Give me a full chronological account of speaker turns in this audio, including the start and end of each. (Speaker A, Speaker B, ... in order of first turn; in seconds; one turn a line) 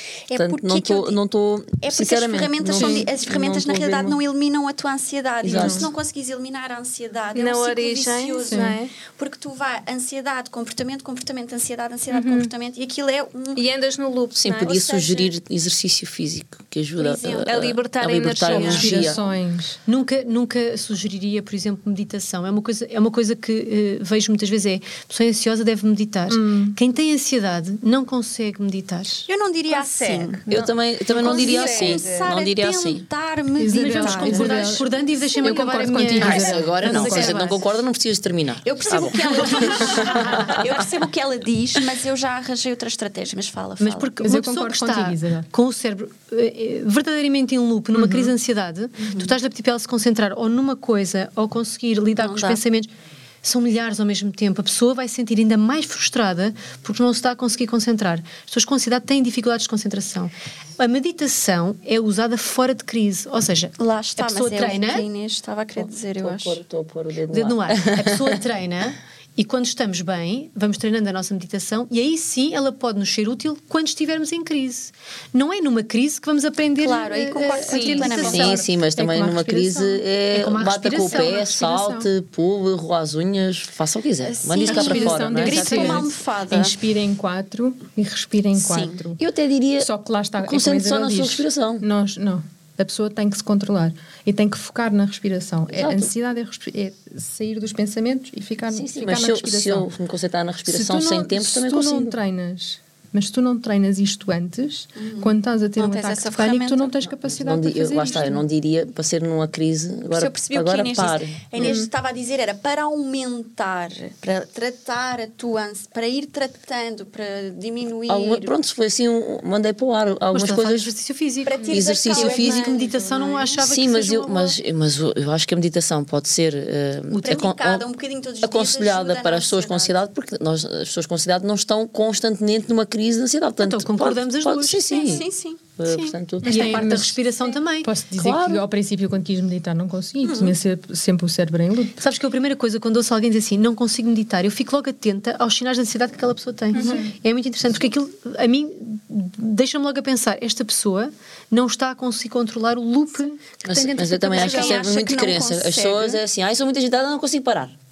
Speaker A: 0.3-1.2
Speaker B: 0.4-4.2
Speaker A: 1.8-13.6
Speaker B: 5.4-5.9
Speaker C: 5.5-5.9
Speaker D: 7.3-8.9
Speaker C: 8.5-8.8
Speaker D: 12.1-12.5
Speaker D: 13.6-14.7
Speaker B: 14.4-19.2
Speaker A: 14.6-15.3
Speaker A: 17.0-17.8
Speaker D: 17.5-19.2
Speaker C: 18.5-19.8
Speaker A: 18.5-19.2
Speaker E: 19.9-29.3
Speaker C: 26.3-26.8
Speaker A: 29.3-30.5
Speaker B: 30.5-33.1
Speaker A: 31.1-35.6
Speaker C: 31.1-31.8
Speaker D: 31.5-32.0
Speaker C: 33.6-34.9
Speaker E: 33.8-37.6
Speaker C: 35.4-37.5
Speaker B: 36.2-40.9
Speaker A: 38.6-44.2
Speaker E: 39.7-40.5
Speaker E: 43.8-52.9
Speaker C: 44.2-45.5
Speaker A: 49.0-49.3
Speaker A: 52.2-52.6
Speaker E: 53.4-65.1
Speaker A: 63.8-66.6
Speaker B: 65.8-68.4
Speaker E: 67.3-78.7
Speaker A: 76.8-78.6
Speaker D: 77.7-78.2
Speaker B: 78.2-86.1
Speaker C: 78.3-80.0
Speaker E: 80.3-81.5
Speaker C: 81.0-82.1
Speaker A: 84.2-86.8
Speaker C: 84.6-89.2
Speaker A: 88.6-89.0
Speaker B: 89.2-91.9
Speaker C: 89.8-99.9
Speaker B: 95.7-96.1
Speaker B: 98.7-102.2
Speaker C: 100.7-108.4
Speaker A: 105.0-106.9
Speaker B: 107.2-111.8
Speaker A: 110.1-118.5
Speaker C: 111.6-111.9
Speaker B: 118.1-120.9
Speaker E: 120.3-124.6
Speaker A: 121.5-123.6
Speaker B: 121.7-122.7
Speaker B: 123.6-127.9
Speaker A: 127.1-130.0
Speaker B: 128.4-136.9
Speaker E: 133.6-135.2
Speaker A: 134.9-136.2
Speaker C: 136.4-137.2
Speaker E: 136.4-137.9
Speaker C: 137.8-142.0
Speaker B: 138.2-138.6
Speaker A: 140.2-140.6
Speaker E: 142.0-154.9
Speaker C: 146.8-147.1
Speaker A: 146.8-147.0
Speaker B: 153.7-157.8
Speaker A: 154.3-156.2